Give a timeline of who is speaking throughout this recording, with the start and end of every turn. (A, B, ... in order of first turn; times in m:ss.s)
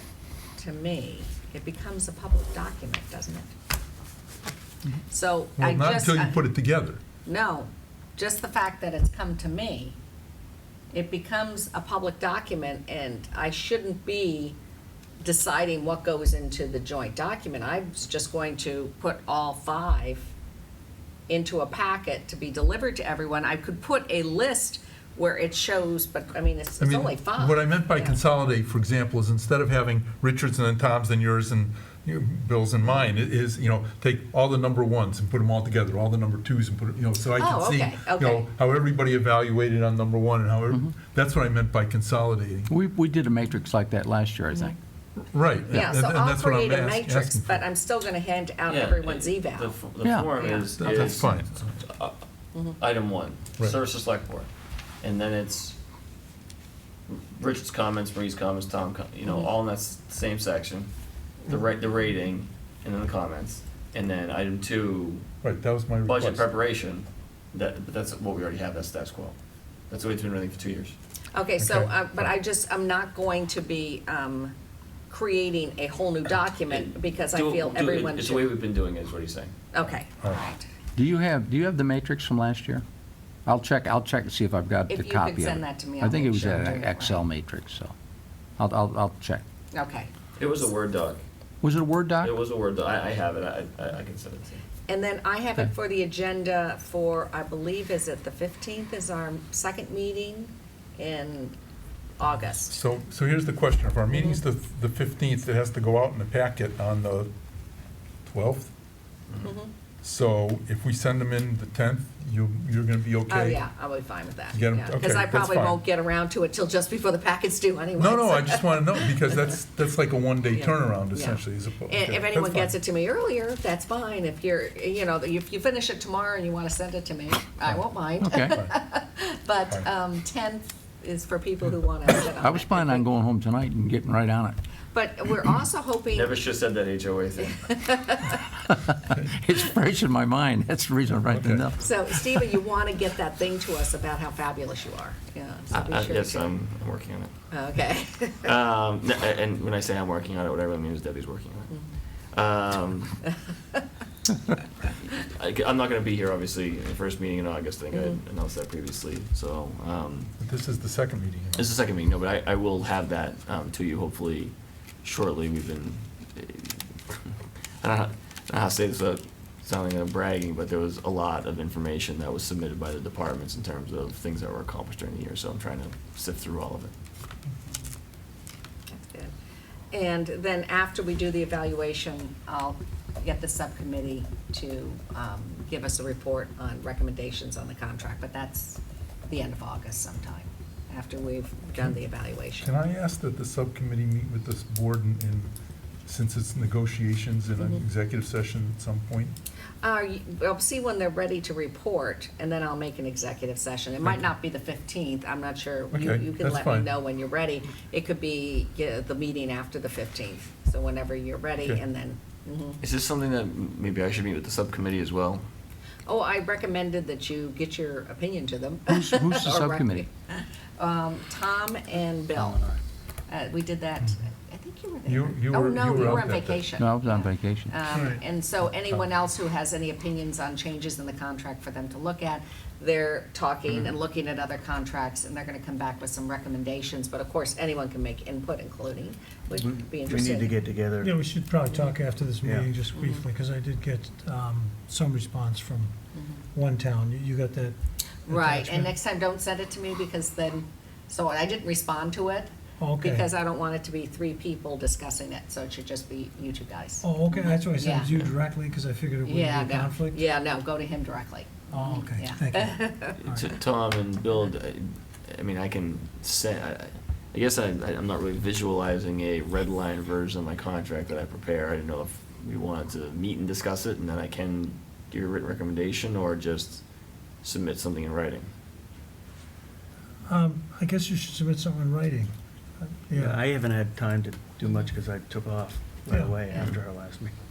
0:00.6-0:03.5 A
0:05.1-0:06.4 A
0:05.6-0:07.0 B
0:07.2-0:10.0 A
0:10.9-0:14.6 A
0:15.2-0:20.3 A
0:21.3-0:28.2 A
0:26.8-0:42.7 B
0:37.4-0:38.5 A
0:42.7-0:44.7 C
0:45.3-0:47.6 B
0:45.7-0:49.8 A
0:48.7-0:52.2 D
0:50.0-0:50.5 C
0:50.4-0:51.2 A
0:50.8-0:51.7 B
0:52.8-0:54.5 D
0:55.0-0:55.8 D
0:57.1-1:00.9 D
1:01.4-1:05.3 D
1:05.4-1:06.5 B
1:06.0-1:09.4 D
1:09.9-1:10.9 D
1:11.3-1:14.5 A
1:11.6-1:12.3 B
1:15.1-1:18.5 A
1:16.7-1:19.5 D
1:19.7-1:20.6 A
1:21.0-1:22.8 C
1:23.4-1:27.9 C
1:24.9-1:27.2 A
1:28.6-1:29.4 C
1:29.7-1:30.1 A
1:30.4-1:31.2 D
1:31.6-1:32.3 C
1:32.2-1:34.6 D
1:34.9-1:41.6 A
1:42.2-1:42.8 A
1:42.4-1:47.3 B
1:48.2-1:48.7 B
1:49.4-1:49.7 A
1:50.0-1:53.6 B
1:53.3-1:59.5 A
1:54.5-1:55.8 B
1:58.0-2:02.7 B
2:00.5-2:13.0 A
2:08.2-2:08.6 C
2:12.3-2:14.6 C
2:14.9-2:16.4 A
2:16.1-2:17.6 D
2:17.5-2:18.5 A
2:18.7-2:22.4 C
2:21.3-2:21.6 B
2:21.8-2:26.5 A
2:25.7-2:27.3 D
2:27.5-2:28.5 A
2:28.4-2:31.7 D
2:32.3-2:33.2 D
2:35.0-2:40.3 D
2:37.9-2:38.2 A
2:40.4-2:41.7 B
2:41.6-2:56.9 D
2:58.9-2:59.3 A
2:59.9-3:12.7 A
3:12.6-3:15.5 B
3:16.0-3:19.4 B
3:19.8-3:32.8 A
3:25.9-3:26.9 B
3:32.8-3:35.4 D
3:36.0-3:42.6 A
3:38.9-3:40.1 C
3:42.4-3:42.8 E
3:43.3-4:00.6 A
3:45.0-3:46.6 B
3:46.8-3:47.8 C
3:59.5-4:01.2 E
4:01.0-4:05.9 F
4:02.4-4:02.7 E
4:02.9-4:03.3 A
4:06.1-4:06.4 A
4:06.5-4:07.8 F
4:08.3-4:08.9 F
4:08.3-4:18.3 A
4:12.8-4:13.3 F
4:17.0-4:20.2 F
4:19.2-4:23.2 A
4:21.7-4:23.5 F
4:23.2-4:36.8 D
4:37.4-4:38.5 D
4:40.3-4:43.4 F
4:43.1-4:47.3 E
4:46.1-4:46.4 F